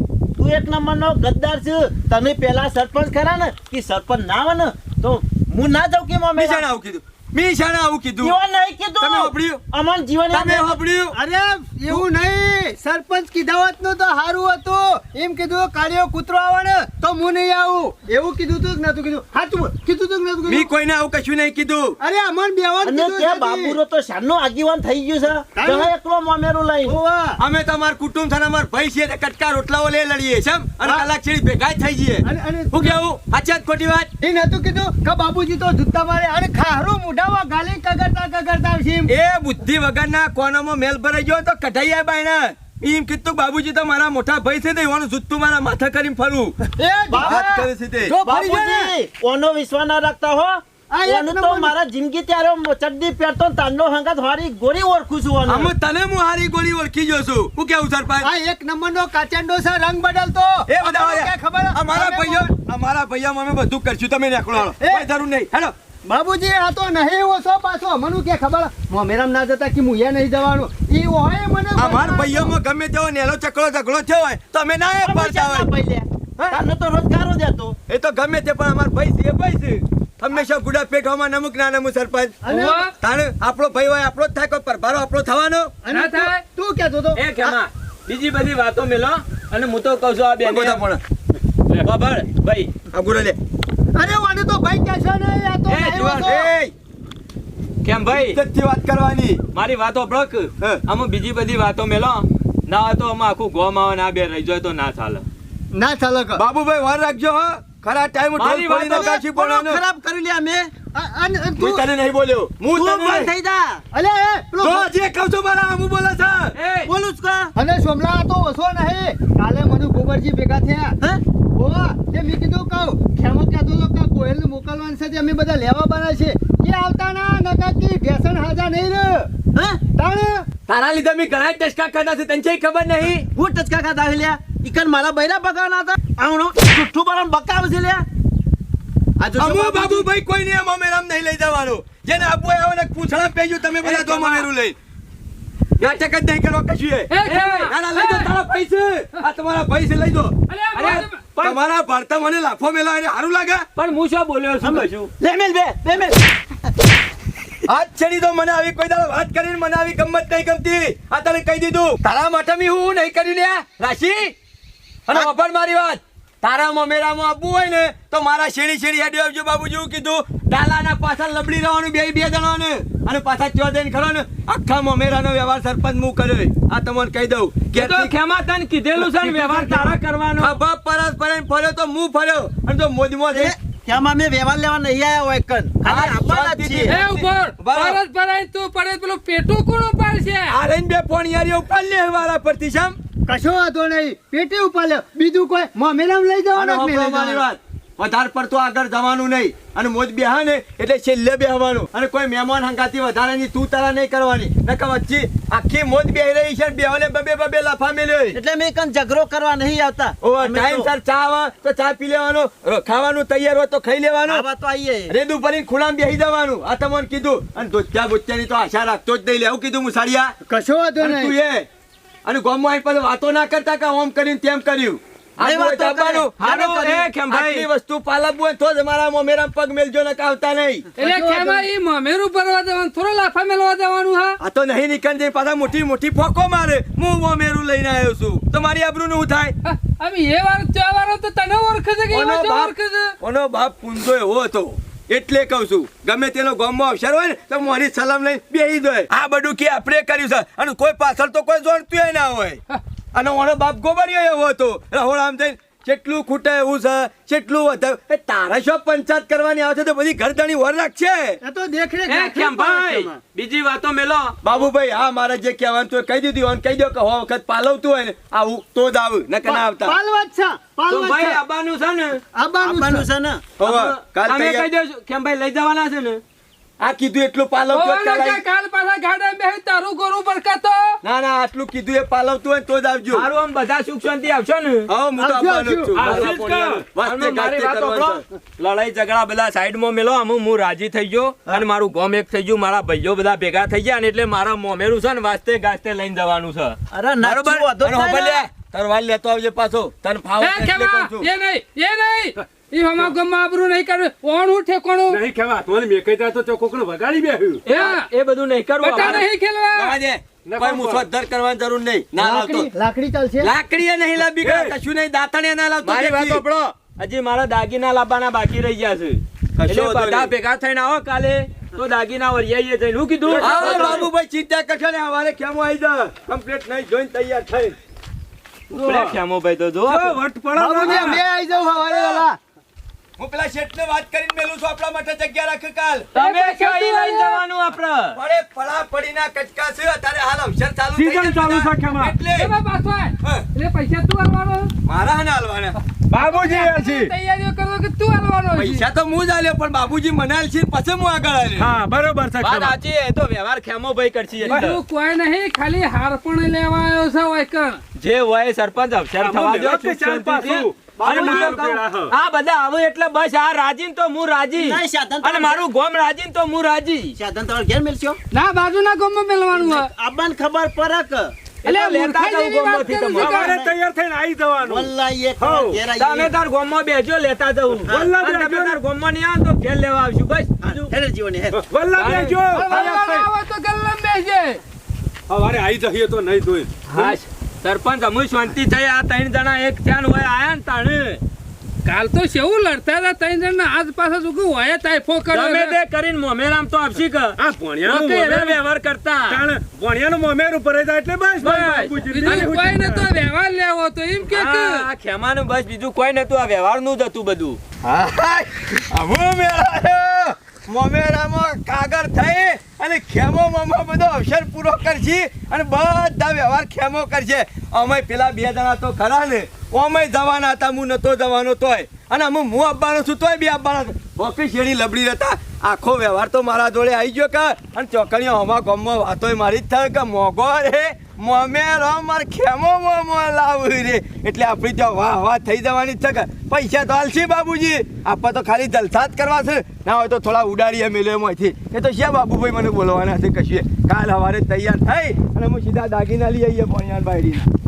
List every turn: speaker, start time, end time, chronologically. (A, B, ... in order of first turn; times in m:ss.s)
0:00.4-0:06.6 A
0:06.4-0:08.4 B
0:08.2-0:10.8 A
0:09.0-0:09.6 B
0:10.3-0:11.2 B
0:11.1-0:20.7 C
0:20.5-0:22.0 B
0:22.0-0:23.8 C
0:22.8-0:27.0 A
0:25.6-0:25.9 C
0:26.8-0:27.4 C
0:27.4-0:34.1 B
0:32.2-0:33.0 C
0:34.2-0:39.1 C
0:39.1-0:46.6 B
0:46.6-0:48.9 C
0:47.1-0:47.5 A
0:47.2-0:48.2 B
0:48.0-0:55.7 A
0:50.9-0:51.7 C
0:55.5-0:58.3 B
0:58.2-1:02.5 C
1:00.7-1:05.7 B
1:04.6-1:05.0 C
1:06.0-1:12.5 C
1:11.8-1:15.7 B
1:15.0-1:17.8 A
1:17.9-1:22.4 B
1:22.4-1:22.8 C
1:22.5-1:22.9 D
1:23.0-1:25.8 B
1:25.8-1:27.6 C
1:25.9-1:26.4 D
1:27.1-1:30.8 E
1:30.4-1:31.0 B
1:31.7-1:32.7 E
1:32.9-1:33.4 B
1:34.0-1:36.5 C
1:35.7-1:36.4 E
1:36.2-1:36.7 B
1:37.8-1:38.4 E
1:38.1-1:39.4 B
1:39.5-1:45.2 E
1:45.7-1:46.4 C
1:46.4-1:49.8 B
1:48.4-1:49.1 E
1:48.8-1:50.7 A
1:50.9-1:51.9 C
1:51.6-1:53.3 B
1:52.7-1:53.8 A
1:53.9-1:54.9 C
1:54.6-1:56.6 B
1:56.5-1:56.9 E
1:56.8-1:57.5 A
1:57.6-2:01.0 C
2:01.5-2:09.3 C
2:09.5-2:09.8 A
2:10.0-2:10.5 C
2:10.7-2:13.3 B
2:13.3-2:18.0 A
2:19.2-2:20.1 A
2:19.4-2:24.8 B
2:23.8-2:24.2 E
2:25.8-2:33.7 B
2:27.1-2:28.3 D
2:27.2-2:27.7 E
2:30.5-2:31.2 D
2:30.8-2:31.6 E
2:33.8-2:35.1 E
2:34.6-2:36.2 A
2:37.7-2:44.3 B
2:45.1-2:58.1 B
2:57.7-3:00.6 E
3:00.4-3:03.6 B
3:03.3-3:07.0 A
3:05.8-3:08.0 B
3:06.8-3:10.6 D
3:10.5-3:13.0 B
3:13.3-3:17.4 C
3:16.5-3:28.4 B
3:28.3-3:30.9 A
3:30.2-3:34.4 B
3:34.2-3:35.1 A
3:35.1-3:40.3 B
3:40.5-3:41.4 C
3:41.0-3:41.7 B
3:42.2-3:50.9 B
3:45.4-3:47.0 A
3:46.4-3:47.7 E
3:51.0-3:51.7 C
3:51.0-3:54.4 D
3:54.4-3:59.5 B
3:59.6-4:03.1 D
4:02.1-4:12.6 B
4:13.1-4:21.4 B
4:21.4-4:23.2 C
4:22.1-4:24.4 E
4:24.4-4:30.0 B
4:29.4-4:31.4 C
4:30.9-4:32.2 E
4:32.3-4:33.0 C
4:32.6-4:33.5 A
4:33.6-4:34.7 B
4:33.6-4:36.2 E
4:36.8-4:38.4 B
4:37.7-4:41.0 D
4:41.0-4:43.3 B
4:43.1-4:44.9 E
4:44.9-4:48.2 B
4:45.2-4:46.0 C
4:46.0-4:46.9 F
4:46.0-4:56.8 E
4:56.9-4:58.4 A
4:57.2-5:01.3 B
5:00.4-5:05.2 D
5:05.1-5:07.7 F
5:07.7-5:09.2 E
5:07.7-5:08.1 D
5:08.8-5:09.2 F
5:08.8-5:10.0 D
5:09.7-5:12.7 B
5:10.4-5:11.0 F
5:12.2-5:13.5 C
5:13.4-5:14.3 E
5:13.7-5:16.4 B
5:14.4-5:14.8 F
5:15.8-5:24.1 E
5:19.6-5:20.3 B
5:23.3-5:24.0 C
5:23.3-5:24.0 F
5:23.4-5:27.8 B
5:28.7-5:30.2 E
5:28.7-5:29.2 F
5:29.9-5:31.2 F
5:30.5-5:32.4 C
5:30.8-5:31.1 E
5:30.9-5:31.1 B
5:31.8-5:32.2 B
5:33.2-5:36.1 B
5:36.2-5:37.4 D
5:36.2-5:38.2 E
5:38.2-5:42.5 B
5:40.9-5:42.2 F
5:42.2-5:44.7 D
5:44.8-5:45.8 B
5:46.1-5:47.1 F
5:46.2-5:48.8 D
5:48.5-5:51.8 B
5:51.6-5:52.8 F
5:52.4-5:54.8 E
5:54.4-5:57.8 D
5:58.0-6:07.2 E
5:59.2-6:02.1 F
6:01.0-6:01.8 C
6:04.5-6:05.6 A
6:07.2-6:08.2 A
6:08.3-6:09.9 D
6:09.5-6:11.3 A
6:11.6-6:13.5 E
6:11.6-6:13.5 D
6:13.2-6:15.8 F
6:13.3-6:13.7 A
6:14.6-6:16.3 A
6:16.0-6:20.9 E
6:17.8-6:18.8 F
6:20.6-6:21.6 A
6:21.5-6:23.3 F
6:22.0-6:22.4 E
6:22.5-6:24.6 D
6:25.3-6:27.2 F
6:26.9-6:31.2 E
6:31.8-6:35.8 D
6:35.3-6:39.4 E
6:37.4-6:38.6 F
6:39.3-6:43.1 F
6:41.4-6:42.0 E
6:42.1-6:44.8 D
6:44.2-6:47.6 E
6:47.8-7:27.5 B